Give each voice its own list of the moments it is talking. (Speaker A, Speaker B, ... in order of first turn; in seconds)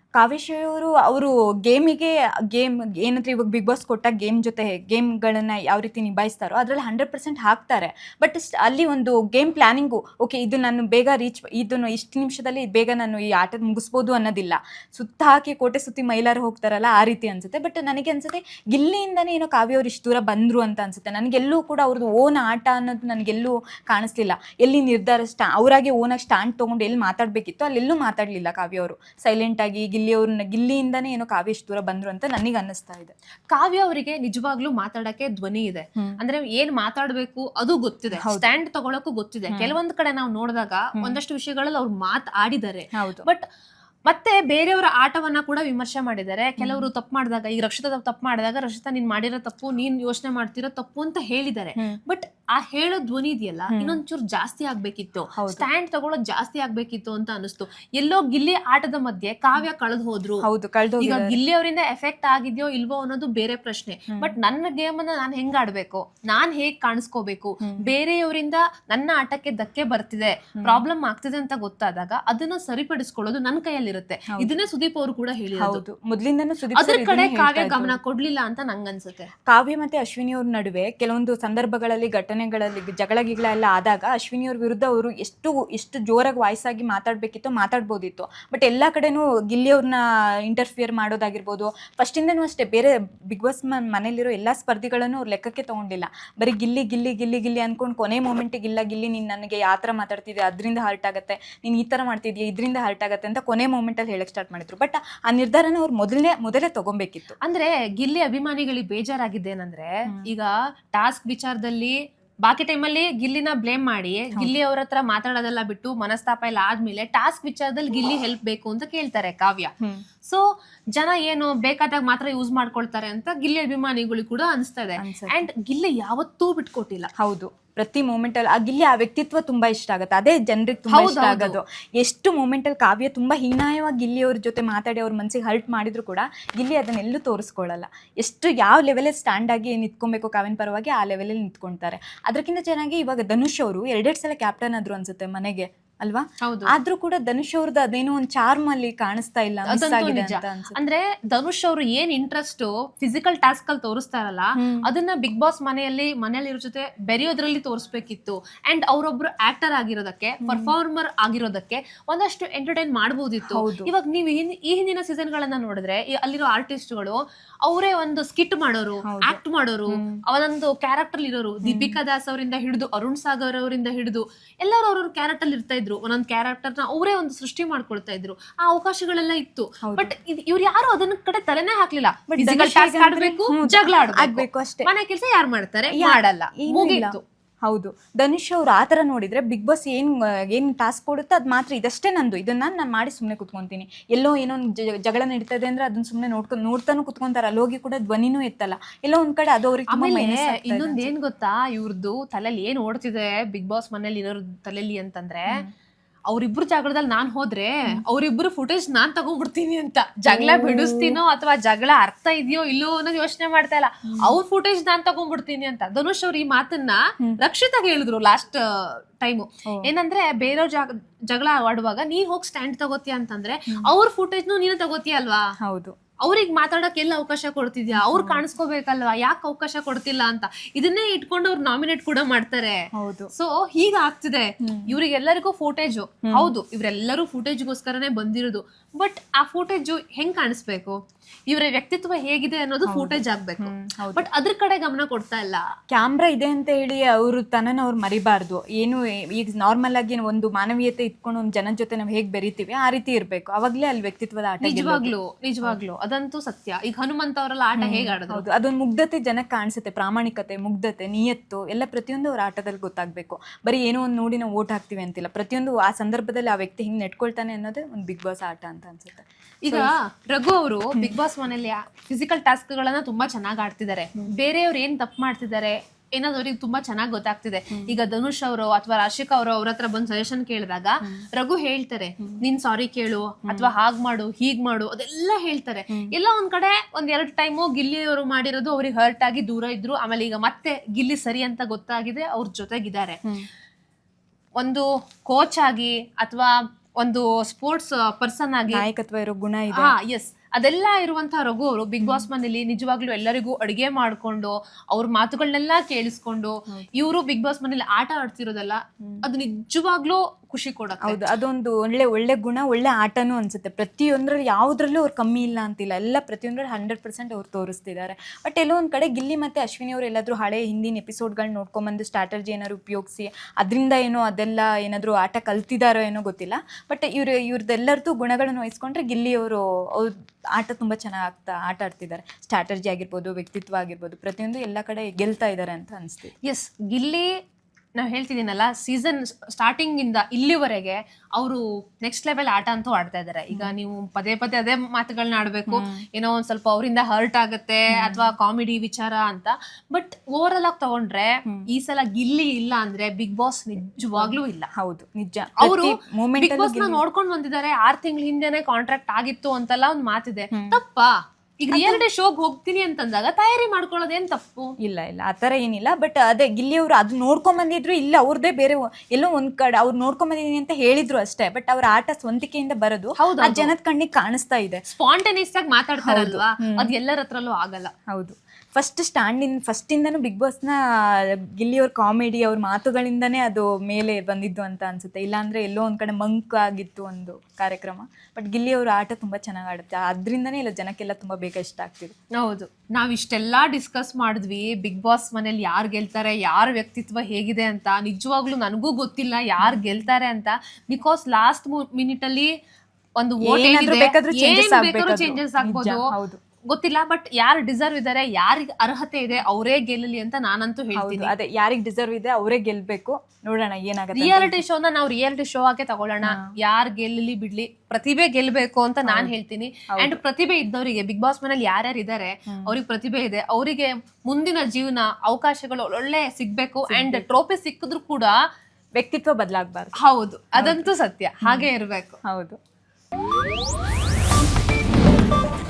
Speaker A: 0.2-33.1, 38.2-38.5, 39.5-39.8, 42.9-43.3, 46.6-46.9, 53.7-54.0, 55.4-55.7, 60.4-61.4, 74.3-74.6, 75.6-78.0, 79.5-107.3, 125.0-125.5, 127.2-150.8, 154.6-154.9, 160.4-160.7, 163.4-163.9, 169.0-170.2, 171.6-172.0, 179.8-180.1, 182.3-184.9, 185.9-201.1, 210.3-211.2, 214.1-214.4, 225.6-225.9, 227.9-228.4, 232.9-233.3, 234.6-234.9, 236.2-236.5, 242.8-244.3, 245.9-255.1, 257.8-269.9, 277.7-277.9, 283.4-283.7, 298.7-299.9, 302.0-302.3, 311.0-336.3, 345.7-346.0, 347.9-348.3, 354.1-357.0, 360.5-360.8, 361.7-362.0, 364.8-374.8, 376.0-376.9, 378.1-392.1, 399.6-400.0, 403.4-406.4, 410.9-414.6, 416.2-416.5, 419.0-419.3, 419.9-420.2, 426.9-427.3, 428.9-429.9, 430.5-431.7, 432.3-432.6
Speaker B: 33.5-43.4, 44.1-60.5, 61.0-75.8, 76.7-79.3, 107.4-119.7, 120.2-127.1, 130.9-131.6, 146.4-146.7, 149.7-187.2, 199.9-205.6, 206.3-225.4, 226.2-245.6, 254.6-258.4, 269.6-293.2, 294.6-298.9, 299.8-311.2, 336.4-337.4, 338.0-354.7, 355.6-364.7, 373.2-373.7, 374.9-377.9, 392.4-402.5, 403.2-406.1, 406.7-411.3, 414.1-428.4, 430.0-432.2